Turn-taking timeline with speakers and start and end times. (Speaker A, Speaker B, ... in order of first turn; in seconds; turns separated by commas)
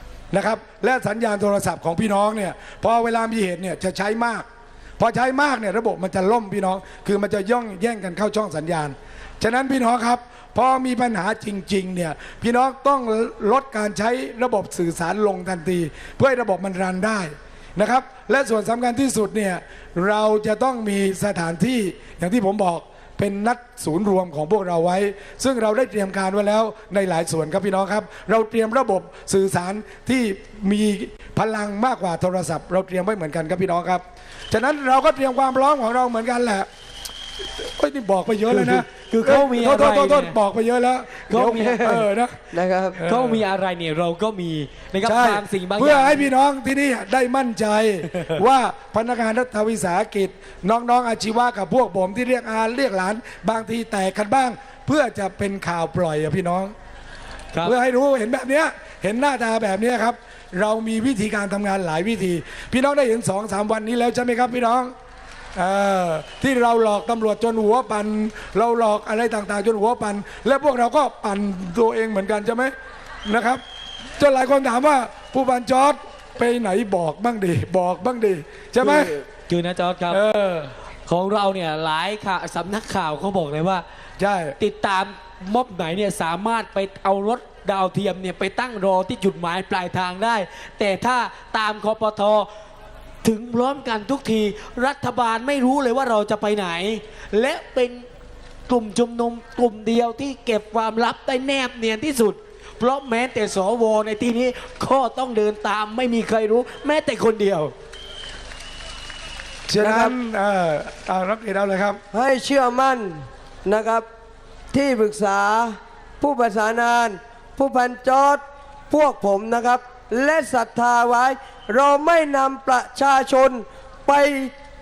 Speaker A: 0.3-4.5, Speaker A: 5.0-36.7, Speaker A: 37.6-42.4, Speaker B: 38.5-40.3, Speaker B: 41.3-42.0, Speaker C: 42.5-43.0, Speaker A: 43.0-43.4, Speaker B: 43.0-46.2, Speaker A: 45.0-56.7, Speaker A: 57.6-64.9, Speaker A: 65.6-72.7, Speaker A: 73.3-73.6, Speaker A: 74.2-79.1, Speaker B: 78.8-80.2, Speaker A: 80.1-80.7, Speaker B: 81.1-83.8, Speaker A: 84.2-84.6, Speaker B: 84.6-92.5, Speaker B: 93.2-98.0, Speaker B: 98.7-107.7, Speaker A: 109.7-112.0, Speaker C: 109.8-110.1, Speaker C: 112.1-114.1, Speaker C: 114.7-124.5